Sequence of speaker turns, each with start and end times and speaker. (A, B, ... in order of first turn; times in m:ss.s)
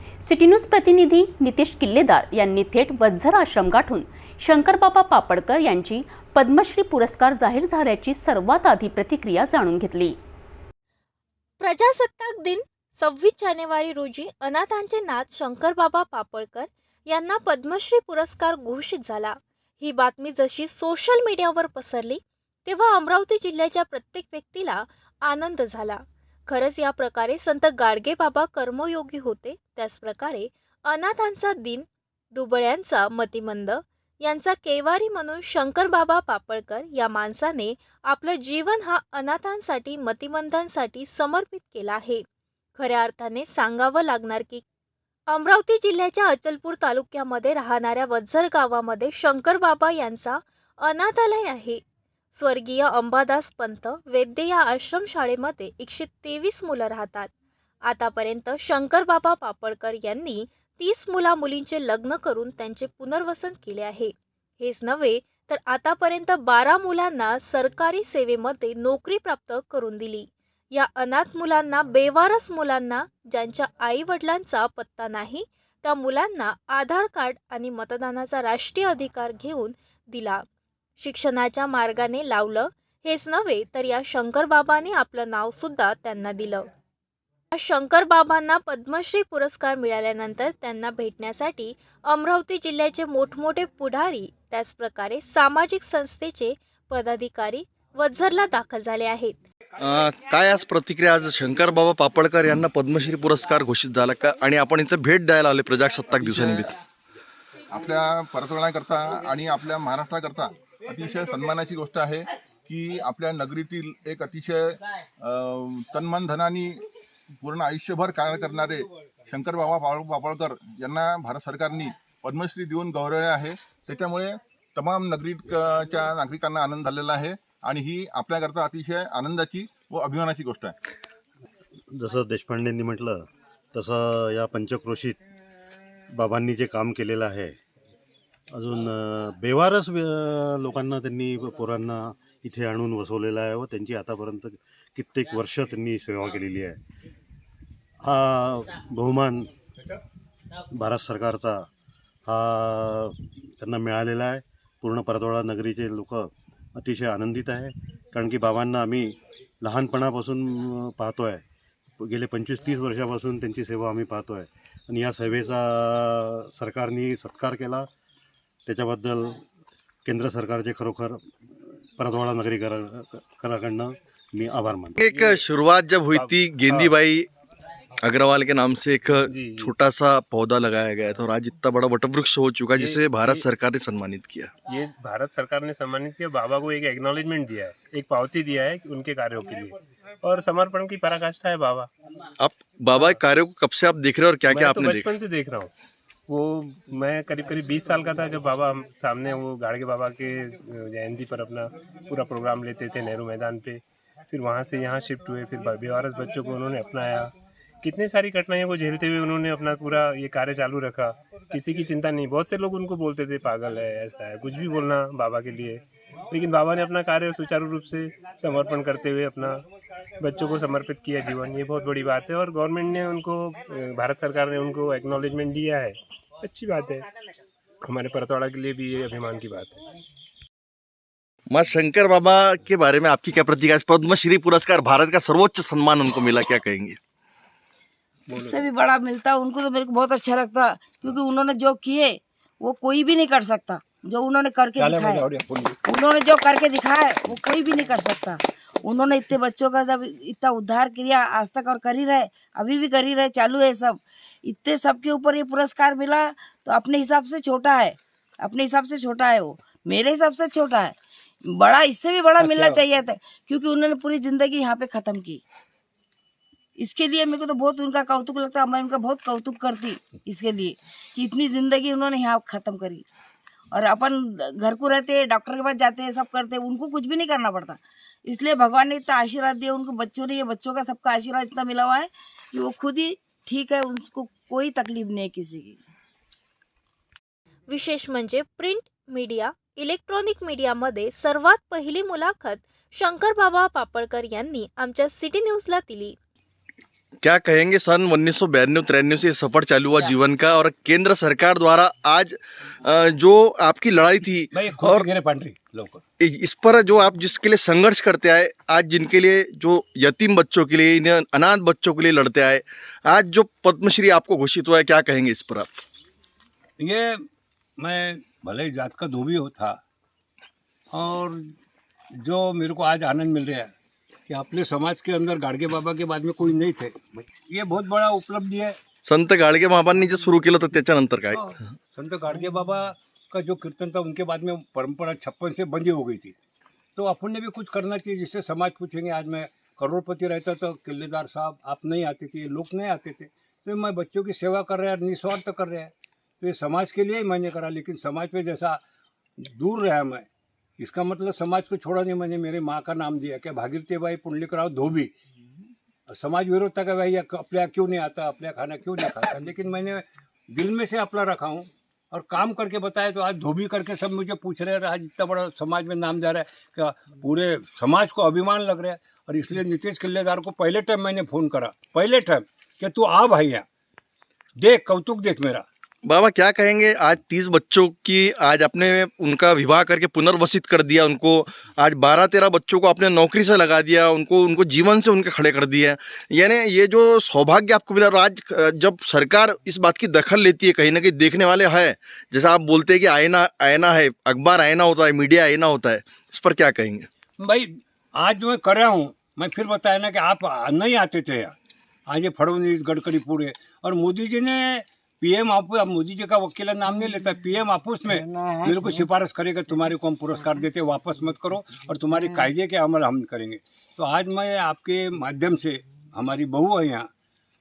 0:00.2-0:10.2 A
0:11.6-0:42.2 B
0:42.8-0:44.6 B
0:45.3-0:51.8 B
0:52.4-0:57.3 B
0:57.9-1:20.4 B
1:21.0-1:26.7 B
1:27.5-1:39.4 B
1:39.8-1:46.7 C
1:46.2-1:46.7 D
1:47.7-1:56.8 D
1:57.4-2:10.8 D
2:11.9-2:15.2 E
2:16.1-2:17.6 E
2:18.5-2:26.8 E
2:28.0-2:29.5 E
2:30.7-2:31.7 E
2:32.3-2:41.4 E
2:42.0-2:47.9 E
2:48.7-2:49.4 E
2:50.0-2:51.2 E
2:52.0-2:55.0 E
2:55.0-2:57.3 C
2:55.1-2:55.4 F
2:56.1-2:56.9 F
2:58.0-3:04.5 C
2:59.3-2:59.8 F
3:02.8-3:03.4 F
3:04.7-3:11.9 F
3:12.4-3:15.1 C
3:14.5-3:15.7 F
3:16.3-3:39.6 F
3:40.2-3:47.1 F
3:47.8-3:49.8 F
3:51.5-3:57.0 C
3:58.3-4:05.2 G
3:58.3-3:58.6 F
4:04.8-4:05.8 H
4:05.9-4:21.0 G
4:21.5-4:25.4 G
4:22.4-4:22.8 H
4:26.8-4:33.0 G
4:33.7-4:45.8 G
4:47.7-4:56.2 B
4:57.2-5:05.0 C
5:04.5-5:06.0 H
5:06.2-5:15.7 C
5:16.8-5:17.2 H
5:17.8-5:19.8 H
5:20.9-5:21.5 H
5:22.2-5:23.7 H
5:24.3-5:28.8 H
5:29.0-5:31.5 C
5:31.4-5:36.4 H
5:37.0-5:48.8 H
5:49.4-5:50.3 H
5:50.8-5:55.1 H
5:56.1-6:13.6 H
6:14.6-6:15.6 H
6:16.0-6:37.1 C
6:37.4-6:41.5 H
6:42.1-6:57.1 H